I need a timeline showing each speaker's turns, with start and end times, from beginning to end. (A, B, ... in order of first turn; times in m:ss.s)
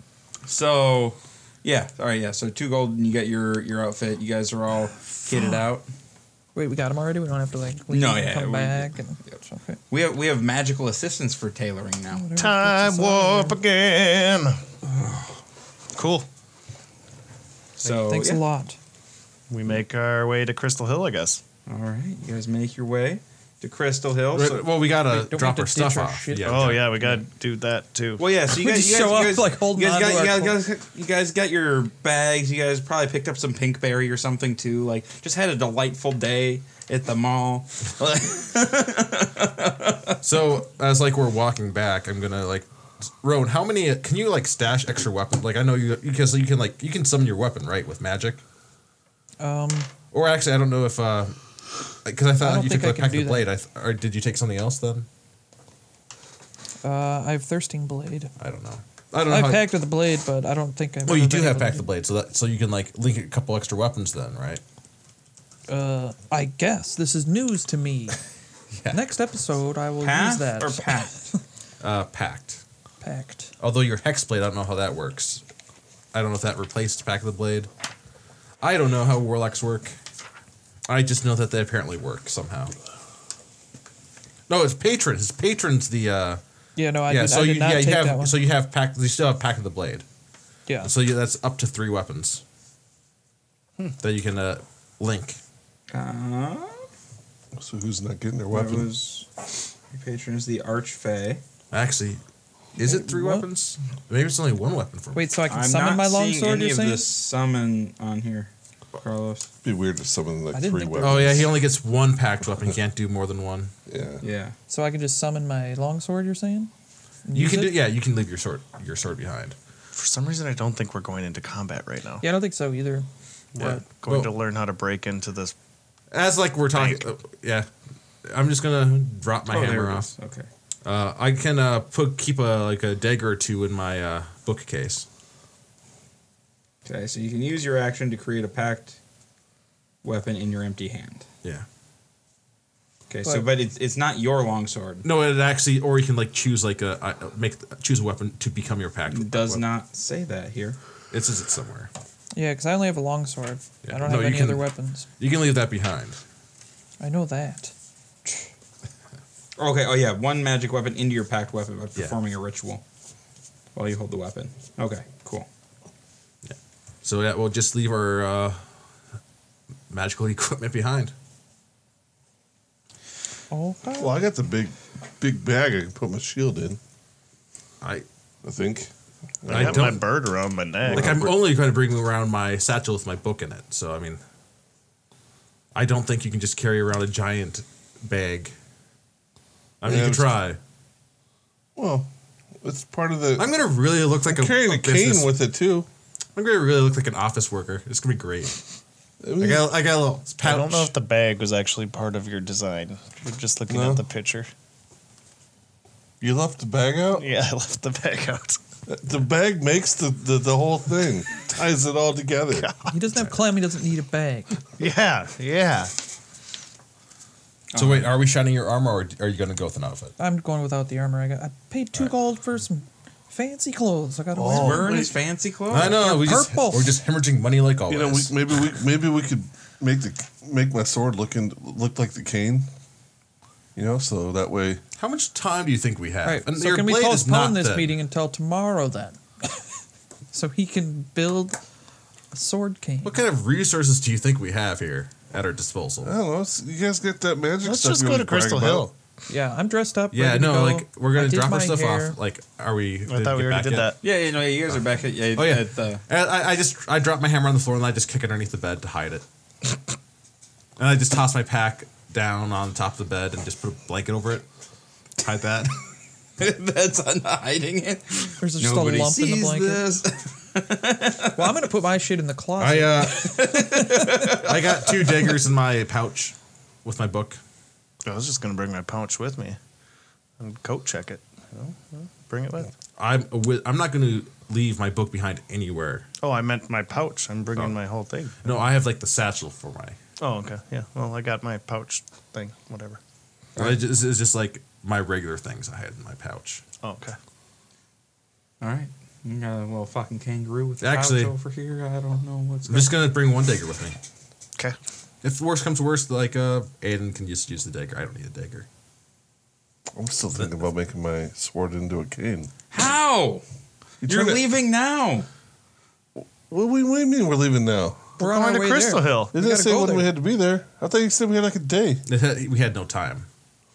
0:00.5-0:05.9 A
0:05.3-0:05.6 B
0:06.6-0:09.8 B
0:07.9-0:08.9 A
0:09.9-0:12.3 A
0:12.1-0:13.6 B
0:12.4-0:14.6 C
0:16.0-0:16.3 C
0:17.8-0:18.4 A
0:17.8-0:18.8 B
0:19.5-0:21.4 C
0:21.7-0:24.6 A
0:24.3-0:27.1 D
0:25.0-0:26.8 B
0:26.4-0:28.2 C
0:28.2-0:40.2 A
0:28.5-0:30.6 B
0:40.2-0:48.4 D
0:49.4-0:49.9 B
0:50.1-0:51.4 D
0:52.0-0:55.1 D
0:52.4-0:53.5 B
0:56.8-0:58.3 B
0:58.4-0:59.7 D
0:59.3-1:01.9 B
1:01.1-1:04.6 D
1:05.7-1:08.2 B
1:08.7-1:09.0 D
1:08.9-1:11.2 B
1:10.0-1:11.2 A
1:11.8-1:12.6 D
1:13.0-1:13.5 B
1:13.6-1:15.4 D
1:16.1-1:17.7 D
1:18.6-1:20.0 D
1:20.9-1:22.7 D
1:24.5-1:26.4 D
1:26.8-1:28.4 B
1:27.1-1:30.0 D
1:30.7-1:30.9 B
1:30.8-1:32.4 D
1:34.0-1:35.4 D
1:35.9-1:36.9 A
1:37.6-1:38.9 E
1:38.5-1:41.4 A
1:41.7-1:42.2 D
1:42.8-1:45.3 D
1:42.8-1:43.5 B
1:45.1-1:47.1 B
1:45.5-1:49.5 A
1:49.6-1:51.5 E
1:50.5-1:51.4 B
1:51.0-1:53.7 D
1:53.9-1:54.2 E
1:54.2-1:54.5 A
1:54.7-1:56.7 B
1:57.3-1:57.8 B
1:57.4-1:59.6 D
1:59.9-2:02.2 C
2:02.2-2:03.1 B
2:03.6-2:05.6 C
2:03.6-2:04.3 D
2:06.1-2:07.7 D
2:06.7-2:07.0 C
2:08.3-2:10.1 D
2:09.5-2:10.5 A
2:10.8-2:15.1 D
2:16.9-2:19.0 A
2:20.0-2:21.3 A
2:23.1-2:25.0 A
2:25.0-2:29.6 D
2:29.1-2:30.8 A
2:31.1-2:31.9 D
2:32.4-2:35.1 B
2:33.8-2:34.7 D
2:35.2-2:36.2 D
2:37.0-2:37.7 B
2:39.6-2:42.8 A
2:43.8-2:45.5 A
2:46.4-2:48.6 D
2:49.9-2:51.1 D
2:53.5-2:54.1 B
2:53.9-2:56.8 E
2:57.8-2:58.1 D
2:58.4-2:58.9 E
2:59.4-3:00.0 E
2:59.5-3:00.0 D
2:59.5-3:01.2 C
3:00.8-3:01.4 E
3:00.9-3:04.2 D
3:05.8-3:08.5 D
3:09.8-3:10.6 D
3:09.8-3:10.3 E
3:11.8-3:12.1 E
3:12.6-3:13.6 E
3:13.4-3:15.3 D
3:14.2-3:15.9 E
3:16.4-3:18.6 D
3:19.2-3:19.7 E
3:19.4-3:20.9 D
3:20.4-3:24.5 C
3:23.7-3:24.0 E
3:26.2-3:27.3 E
3:27.1-3:28.6 C
3:28.9-3:32.7 E
3:32.6-3:32.9 C
3:32.9-3:34.6 B
3:34.8-3:35.9 C
3:37.7-3:38.1 A
3:37.8-3:40.1 D
3:40.2-3:45.1 B
3:44.4-3:45.1 E
3:44.5-3:46.0 A
3:45.7-3:48.4 D
3:45.8-3:47.0 B
3:47.9-3:52.7 E
3:53.8-3:54.8 E
3:55.0-3:57.9 D
3:56.2-3:59.6 B
4:00.3-4:01.6 B
4:02.3-4:03.2 B
4:03.0-4:06.1 D
4:06.0-4:08.9 E
4:07.6-4:08.9 C
4:09.3-4:12.2 B
4:10.1-4:13.9 D
4:13.1-4:14.0 C
4:14.0-4:16.0 A
4:15.4-4:19.2 D
4:20.8-4:24.5 D
4:25.2-4:25.8 D
4:26.4-4:31.5 A
4:28.4-4:29.8 B
4:31.3-4:33.2 B
4:32.6-4:37.4 D
4:33.0-4:35.3 A
4:38.0-4:39.6 C
4:40.4-4:42.7 C
4:43.0-4:46.1 D
4:46.2-4:48.5 C
4:48.4-4:50.0 D
4:50.2-4:53.0 C
4:53.6-4:56.6 D
4:56.8-4:57.2 C
4:58.6-5:03.0 A
5:00.8-5:01.3 D
5:02.7-5:04.0 D
5:05.2-5:08.7 D
5:10.0-5:12.5 E
5:12.7-5:13.4 A
5:14.0-5:14.4 E
5:14.0-5:15.3 A
5:16.2-5:18.2 E
5:18.2-5:19.3 C
5:18.2-5:20.1 B
5:19.3-5:22.0 E
5:22.1-5:23.3 D